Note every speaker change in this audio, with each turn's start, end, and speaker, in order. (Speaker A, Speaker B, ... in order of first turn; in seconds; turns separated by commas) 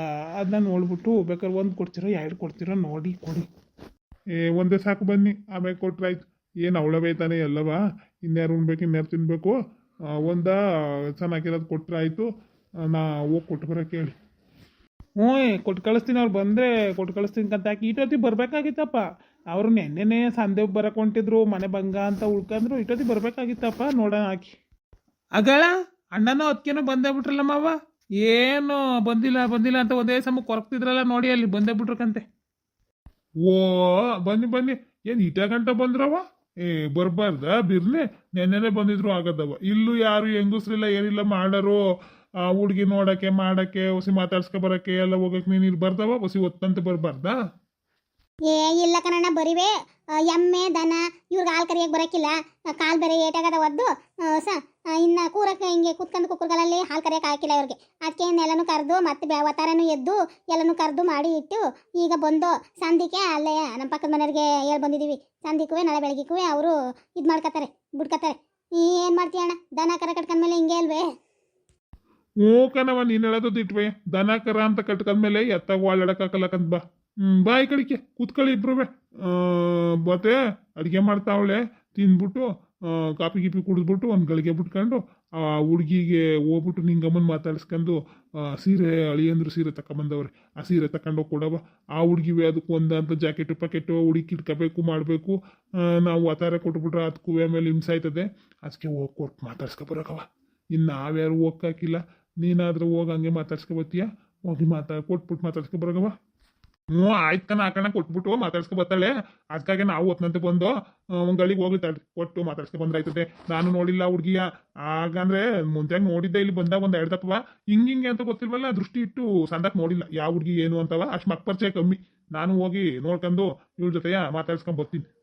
Speaker A: 0.4-3.5, Speaker B: 4.5-9.6, Speaker B: 10.2-10.6, Speaker B: 11.1-12.3, Speaker B: 12.9-14.1, Speaker A: 15.2-24.6, Speaker A: 25.4-32.2, Speaker B: 33.5-41.8, Speaker B: 42.5-47.4, Speaker C: 48.5-71.1, Speaker B: 72.4-95.4, Speaker B: 96.0-106.1, Speaker B: 106.9-125.1